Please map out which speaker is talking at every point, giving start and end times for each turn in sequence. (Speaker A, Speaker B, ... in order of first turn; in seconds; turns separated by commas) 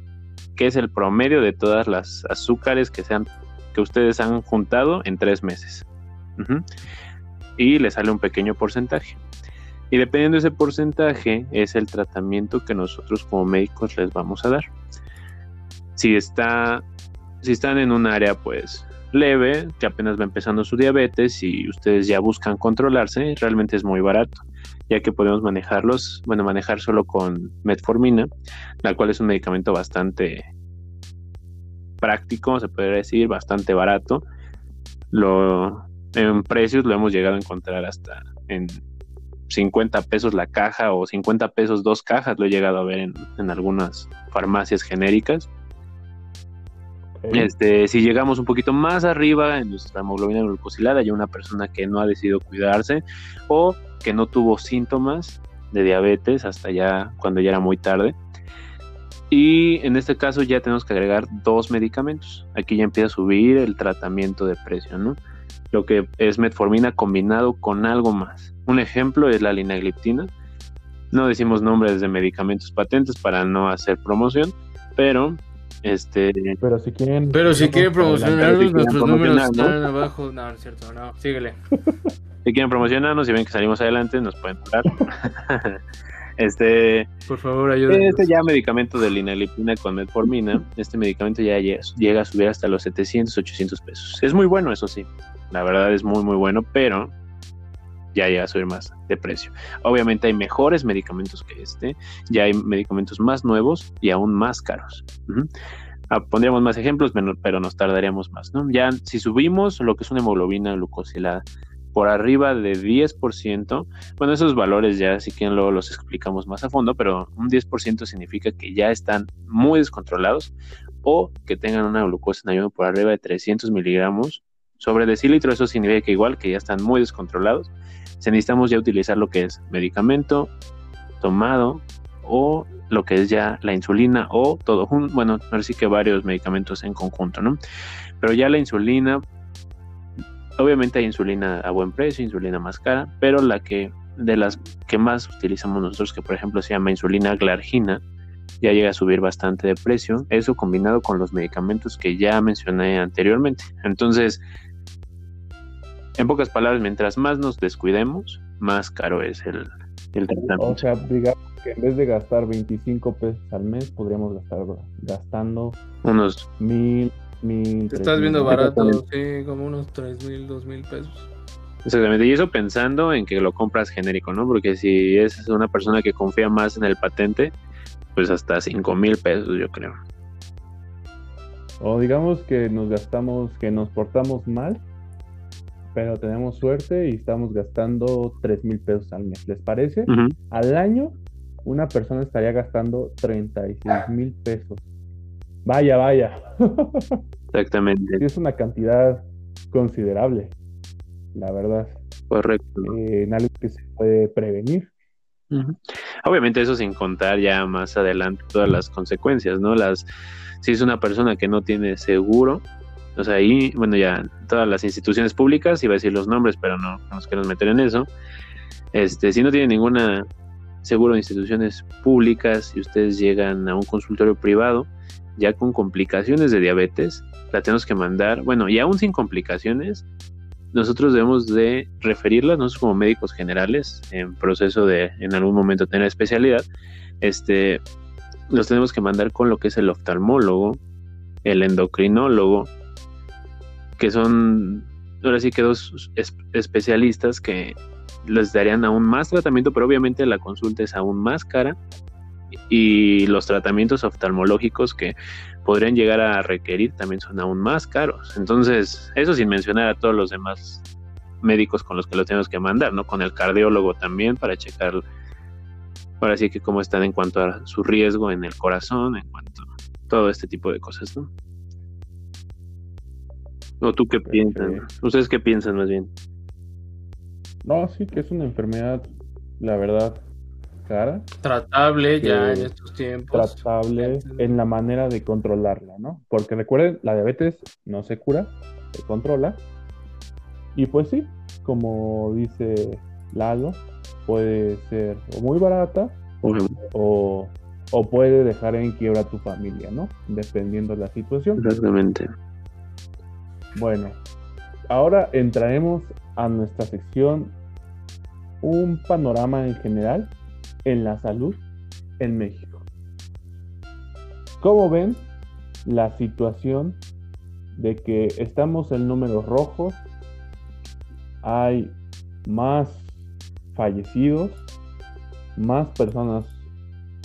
Speaker A: 0.6-5.8, Speaker A: 6.4-6.6, Speaker A: 7.6-9.2, Speaker A: 9.9-14.7, Speaker A: 15.9-16.8, Speaker A: 17.4-28.3, Speaker A: 28.8-30.5, Speaker A: 32.0-34.2, Speaker A: 35.1-38.8, Speaker A: 39.5-45.5, Speaker B: 47.2-47.5, Speaker A: 47.3-58.2, Speaker A: 59.3-65.2, Speaker A: 65.7-70.3, Speaker A: 71.1-76.6, Speaker B: 76.6-78.5, Speaker C: 77.3-81.5, Speaker A: 78.4-79.8, Speaker A: 82.4-85.8, Speaker A: 86.4-87.1, Speaker C: 87.3-88.3, Speaker A: 87.9-97.1, Speaker A: 98.1-105.5, Speaker A: 106.1-130.5, Speaker A: 131.2-137.6, Speaker A: 138.2-139.2, Speaker A: 140.6-148.0, Speaker A: 148.6-154.4, Speaker A: 156.2-160.8, Speaker B: 160.5-165.8, Speaker A: 166.0-166.4, Speaker B: 166.6-168.6, Speaker C: 167.9-171.3, Speaker A: 168.5-169.0, Speaker A: 171.8-177.5, Speaker A: 178.1-179.9, Speaker B: 181.8-184.8, Speaker B: 185.9-194.8, Speaker A: 190.1-190.3, Speaker B: 195.6-197.2, Speaker A: 197.5-198.2, Speaker B: 198.2-200.5, Speaker B: 201.3-202.0, Speaker A: 202.3-202.9, Speaker B: 202.8-204.9, Speaker A: 205.5-210.1, Speaker A: 210.6-212.6, Speaker A: 213.2-218.1, Speaker A: 218.9-220.2, Speaker A: 220.8-230.0, Speaker A: 230.7-236.7, Speaker A: 237.2-237.8, Speaker A: 238.5-240.8, Speaker A: 241.4-242.7, Speaker A: 244.0-251.8, Speaker A: 252.7-260.8, Speaker A: 261.4-265.0, Speaker A: 266.2-271.3, Speaker A: 273.8-276.1, Speaker B: 274.3-274.9, Speaker B: 277.6-280.2, Speaker B: 280.8-281.3, Speaker C: 281.4-284.6, Speaker B: 282.2-282.7, Speaker B: 283.3-289.6, Speaker B: 290.7-296.2, Speaker A: 296.4-296.7, Speaker B: 296.9-301.6, Speaker A: 301.6-302.2, Speaker B: 303.7-304.2, Speaker B: 304.9-307.6, Speaker B: 308.6-310.3, Speaker B: 310.8-311.6, Speaker B: 312.2-312.8, Speaker B: 314.6-315.3, Speaker B: 315.8-317.0, Speaker B: 317.7-320.0, Speaker B: 321.4-323.1, Speaker B: 323.7-324.6, Speaker B: 325.6-326.6